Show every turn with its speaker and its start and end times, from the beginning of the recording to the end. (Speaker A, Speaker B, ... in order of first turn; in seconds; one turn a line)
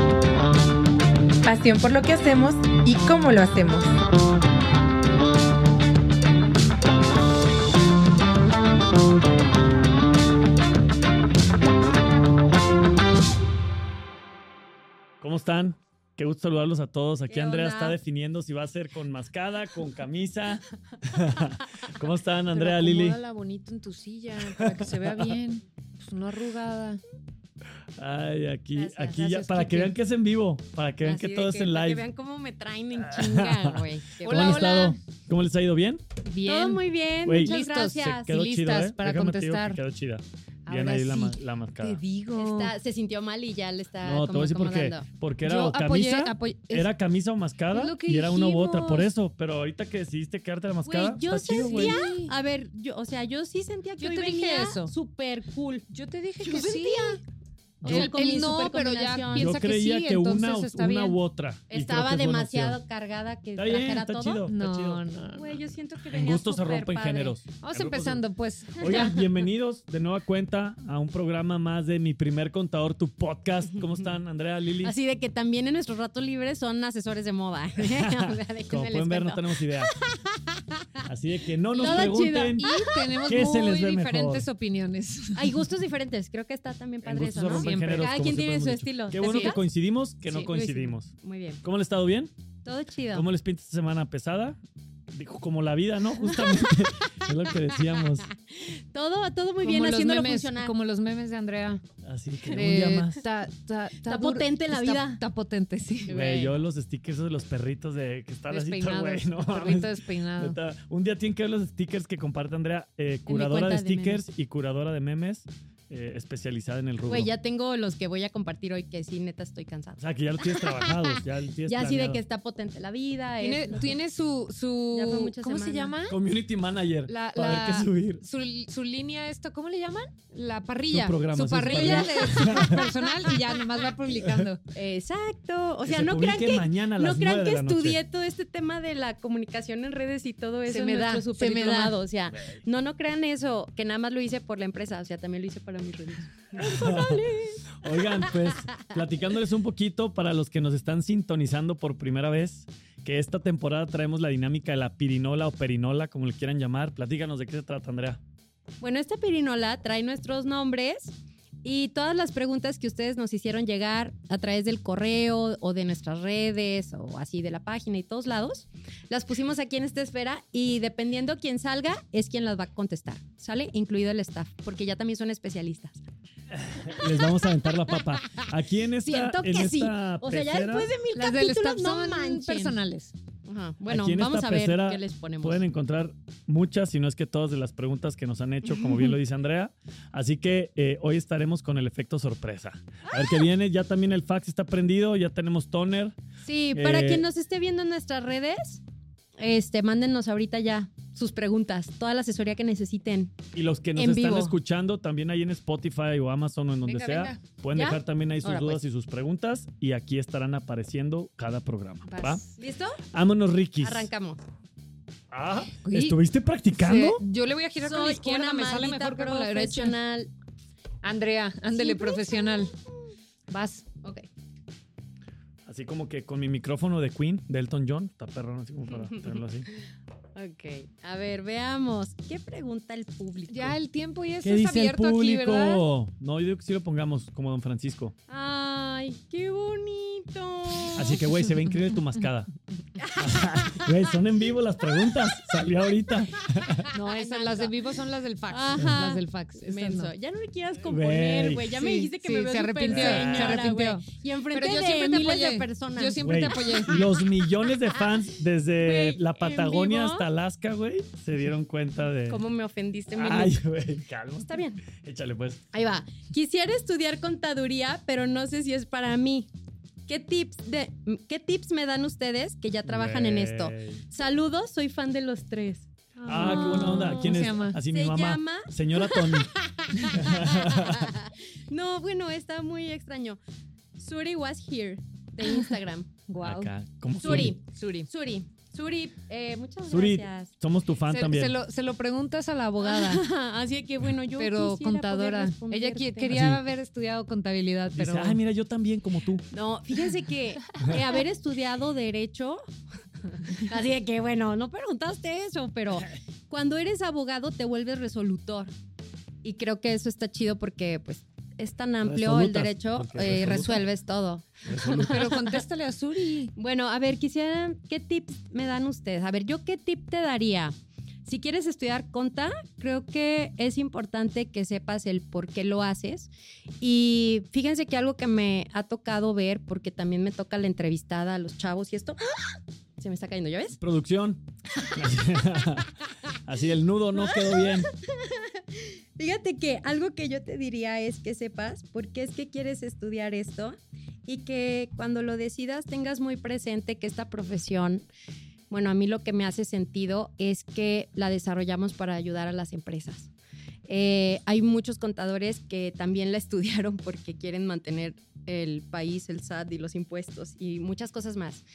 Speaker A: 1.4-4.0
Speaker B: 15.2-23.2
Speaker C: 17.3-18.0
Speaker D: 22.5-27.0
Speaker B: 24.5-25.3
Speaker B: 28.0-32.0
Speaker C: 28.8-29.9
Speaker D: 29.2-29.9
Speaker C: 31.0-34.9
Speaker B: 33.0-36.0
Speaker D: 34.2-35.0
Speaker D: 36.2-39.8
Speaker C: 36.5-38.3
Speaker B: 37.2-42.0
Speaker D: 40.7-42.8
Speaker C: 42.4-45.1
Speaker B: 44.0-52.0
Speaker D: 45.4-46.9
Speaker D: 47.7-49.1
Speaker C: 50.9-55.9
Speaker D: 51.5-52.3
Speaker D: 54.0-54.9
Speaker D: 55.9-57.2
Speaker C: 56.4-57.2
Speaker C: 57.8-59.6
Speaker D: 57.8-61.2
Speaker B: 57.9-58.1
Speaker B: 59.4-62.8
Speaker C: 61.7-64.4
Speaker B: 63.6-65.0
Speaker D: 64.5-65.6
Speaker C: 65.3-67.4
Speaker B: 66.1-68.2
Speaker D: 67.6-69.2
Speaker B: 68.8-74.9
Speaker C: 68.8-69.2
Speaker C: 74.8-79.4
Speaker B: 77.8-80.0
Speaker C: 80.0-81.0
Speaker B: 81.0-84.5
Speaker C: 81.7-82.9
Speaker D: 81.8-85.6
Speaker C: 85.3-89.6
Speaker B: 87.0-91.1
Speaker D: 87.5-88.1
Speaker D: 89.2-89.6
Speaker D: 90.3-90.5
Speaker C: 90.5-91.6
Speaker B: 91.6-92.3
Speaker C: 92.7-93.3
Speaker B: 93.1-94.6
Speaker B: 95.1-98.3
Speaker C: 96.3-97.3
Speaker C: 98.2-100.7
Speaker D: 99.6-101.8
Speaker B: 102.0-103.2
Speaker D: 102.5-106.2
Speaker C: 104.0-105.2
Speaker C: 106.1-106.6
Speaker B: 106.1-117.3
Speaker D: 108.5-110.6
Speaker C: 113.3-114.2
Speaker C: 117.1-120.0
Speaker B: 120.0-122.2
Speaker C: 120.5-121.2
Speaker C: 121.7-124.0
Speaker D: 123.4-126.2
Speaker C: 124.9-125.9
Speaker B: 126.1-128.2
Speaker D: 127.1-134.6
Speaker B: 130.9-132.8
Speaker C: 131.6-133.3
Speaker C: 134.7-147.6
Speaker B: 135.8-138.0
Speaker D: 140.7-142.0
Speaker B: 146.6-147.2
Speaker B: 147.8-158.2
Speaker C: 148.2-148.8
Speaker C: 158.8-176.1
Speaker B: 176.6-180.9
Speaker C: 176.9-177.2
Speaker C: 179.0-182.8
Speaker D: 181.1-183.1
Speaker C: 183.5-185.6
Speaker B: 183.9-196.2
Speaker C: 188.7-189.1
Speaker C: 196.4-198.8
Speaker B: 196.7-197.2
Speaker C: 199.4-203.4
Speaker B: 203.5-212.4
Speaker C: 204.0-204.6
Speaker D: 206.8-207.4
Speaker C: 207.8-208.8
Speaker D: 212.1-212.5
Speaker C: 212.6-213.0
Speaker B: 213.1-214.1
Speaker C: 213.8-214.4
Speaker B: 215.3-217.2
Speaker D: 215.8-216.2
Speaker D: 216.8-220.0
Speaker C: 217.8-220.3
Speaker D: 221.0-222.7
Speaker C: 221.7-222.8
Speaker D: 223.5-223.8
Speaker B: 225.7-229.7
Speaker C: 228.9-229.2
Speaker C: 230.3-233.8
Speaker D: 233.5-235.8
Speaker B: 234.4-238.1
Speaker C: 238.3-241.2
Speaker B: 240.9-242.5
Speaker C: 243.0-244.0
Speaker B: 243.2-246.9
Speaker D: 246.9-250.1
Speaker C: 246.9-247.7
Speaker C: 248.5-257.1
Speaker B: 250.8-251.7
Speaker D: 251.7-257.1
Speaker B: 252.9-253.6
Speaker B: 256.2-262.4
Speaker C: 258.8-260.3
Speaker C: 262.3-263.6
Speaker B: 263.1-265.6
Speaker C: 264.5-264.8
Speaker C: 265.7-269.5
Speaker C: 270.1-275.9
Speaker B: 272.9-274.0
Speaker D: 276.2-277.8
Speaker B: 276.3-279.5
Speaker C: 276.4-283.4
Speaker B: 280.0-281.1
Speaker C: 284.0-286.1
Speaker D: 286.3-286.7
Speaker B: 286.4-287.6
Speaker C: 287.2-290.5
Speaker D: 287.2-288.1
Speaker B: 289.9-291.6
Speaker D: 291.1-293.2
Speaker C: 292.8-296.4
Speaker D: 294.4-298.4
Speaker B: 296.3-296.6
Speaker B: 297.9-299.4
Speaker C: 299.5-302.6
Speaker C: 303.4-308.7
Speaker C: 309.4-315.5
Speaker B: 312.0-313.8
Speaker B: 314.7-315.2
Speaker D: 314.9-316.5
Speaker C: 316.6-326.3
Speaker C: 326.8-333.8
Speaker B: 333.8-337.9
Speaker C: 337.2-348.1
Speaker C: 348.7-353.3
Speaker C: 353.9-361.6